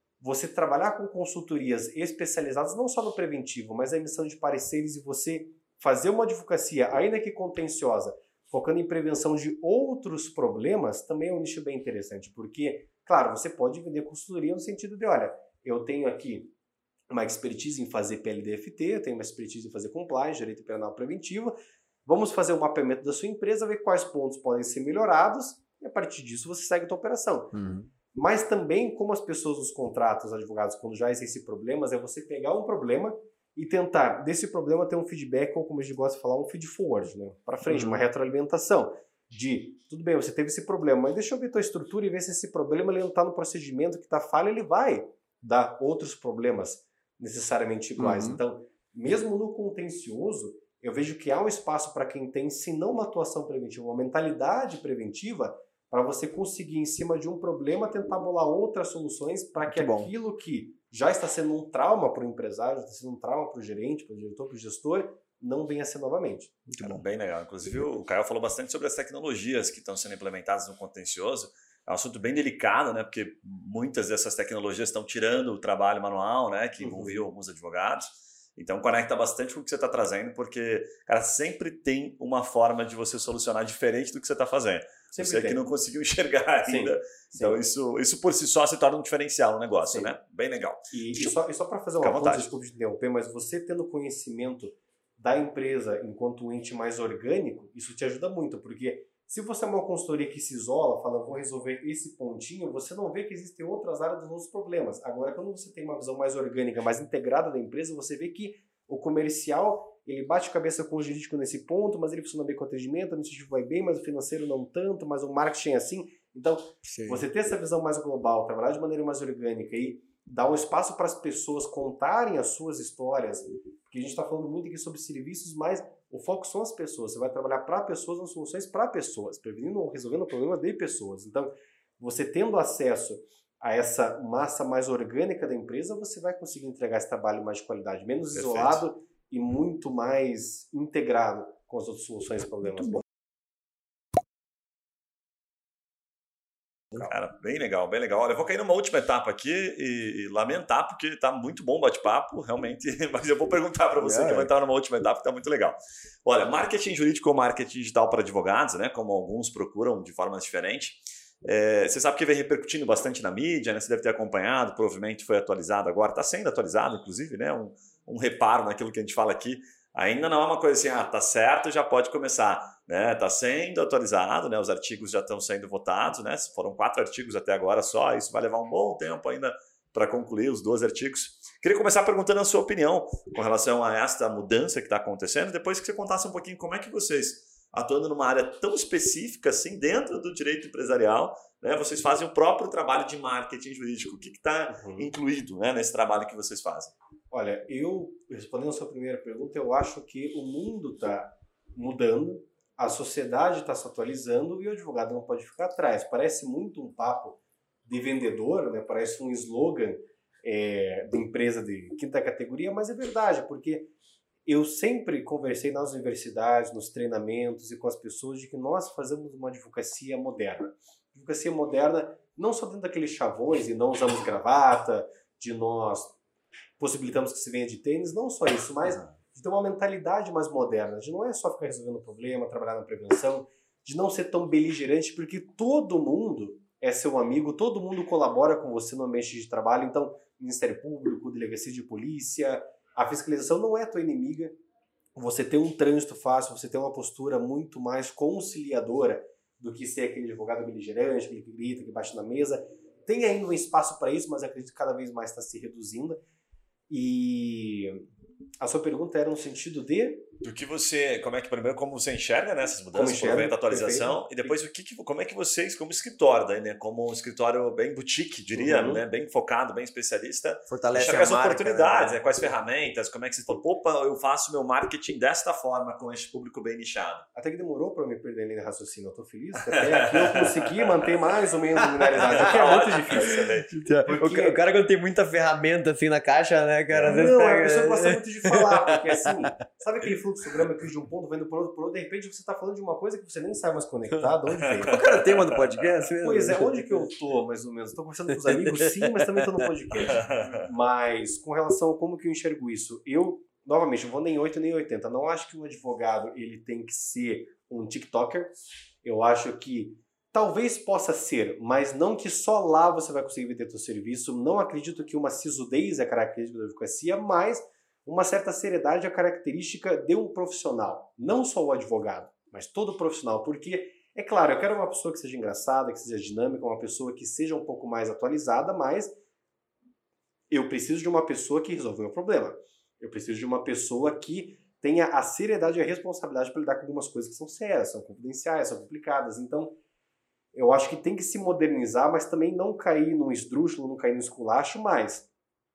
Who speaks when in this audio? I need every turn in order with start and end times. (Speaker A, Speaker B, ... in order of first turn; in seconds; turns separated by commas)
Speaker A: 0.2-16.5, Speaker A: 17.1-21.5, Speaker A: 22.1-27.6, Speaker B: 27.5-27.9, Speaker A: 28.1-66.7, Speaker B: 37.6-38.0, Speaker B: 48.0-48.4, Speaker B: 59.6-60.1, Speaker B: 66.7-67.0, Speaker C: 66.8-91.3, Speaker A: 76.8-77.2, Speaker A: 85.1-85.6, Speaker A: 86.6-87.6, Speaker A: 89.8-90.1, Speaker A: 90.9-143.0, Speaker C: 92.0-92.5, Speaker B: 116.8-117.2, Speaker C: 138.3-138.8, Speaker C: 146.9-196.9, Speaker B: 154.0-154.5, Speaker A: 194.7-195.1, Speaker A: 197.3-213.9, Speaker A: 214.4-226.2, Speaker A: 226.8-244.6, Speaker A: 245.2-256.2, Speaker A: 256.9-258.0, Speaker A: 258.6-260.2, Speaker C: 260.4-277.2, Speaker A: 262.9-264.5, Speaker A: 268.6-269.0, Speaker B: 270.7-272.2, Speaker A: 277.3-284.6, Speaker C: 279.6-281.3, Speaker C: 282.2-283.8, Speaker B: 282.4-289.1, Speaker C: 286.9-287.3, Speaker A: 287.0-295.0, Speaker B: 294.8-297.1, Speaker C: 294.9-295.6, Speaker A: 296.2-329.1, Speaker B: 298.4-299.6, Speaker C: 299.9-300.7, Speaker A: 330.5-339.7, Speaker A: 340.5-345.3